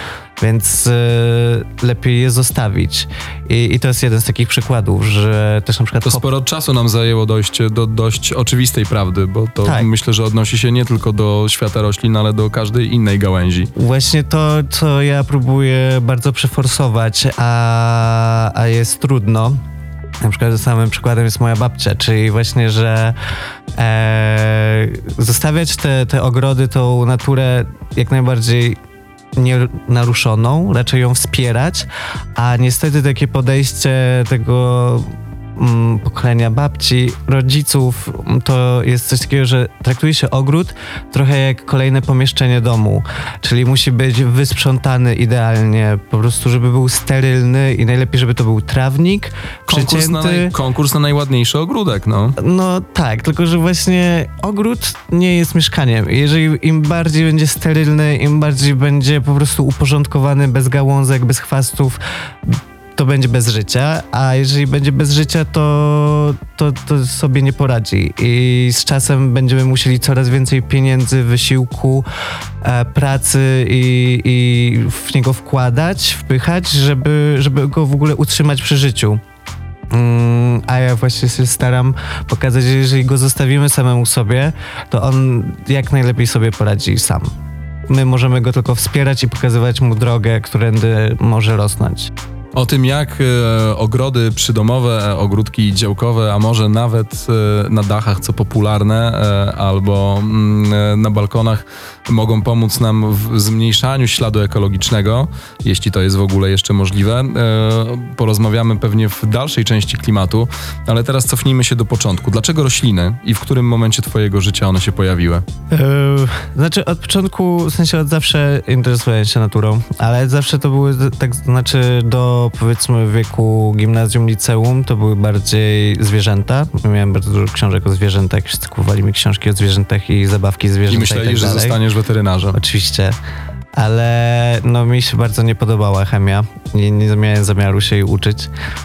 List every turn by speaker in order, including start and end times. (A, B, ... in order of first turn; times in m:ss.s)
0:00.4-0:06.2 A
0:06.0-0:13.7 B
0:09.6-0:09.9 A
0:13.8-0:19.6 A
0:20.2-0:23.2 A
0:23.8-0:28.8 A
0:29.4-0:50.5 A
0:49.7-0:52.4 B
0:52.4-1:12.0 A
1:12.6-1:19.2 A
1:19.9-1:27.3 A
1:27.9-1:32.1 A
1:32.6-1:55.4 B
1:55.7-2:11.8 A
2:10.9-2:12.6 B
2:12.5-2:13.2 A
2:13.8-2:18.5 A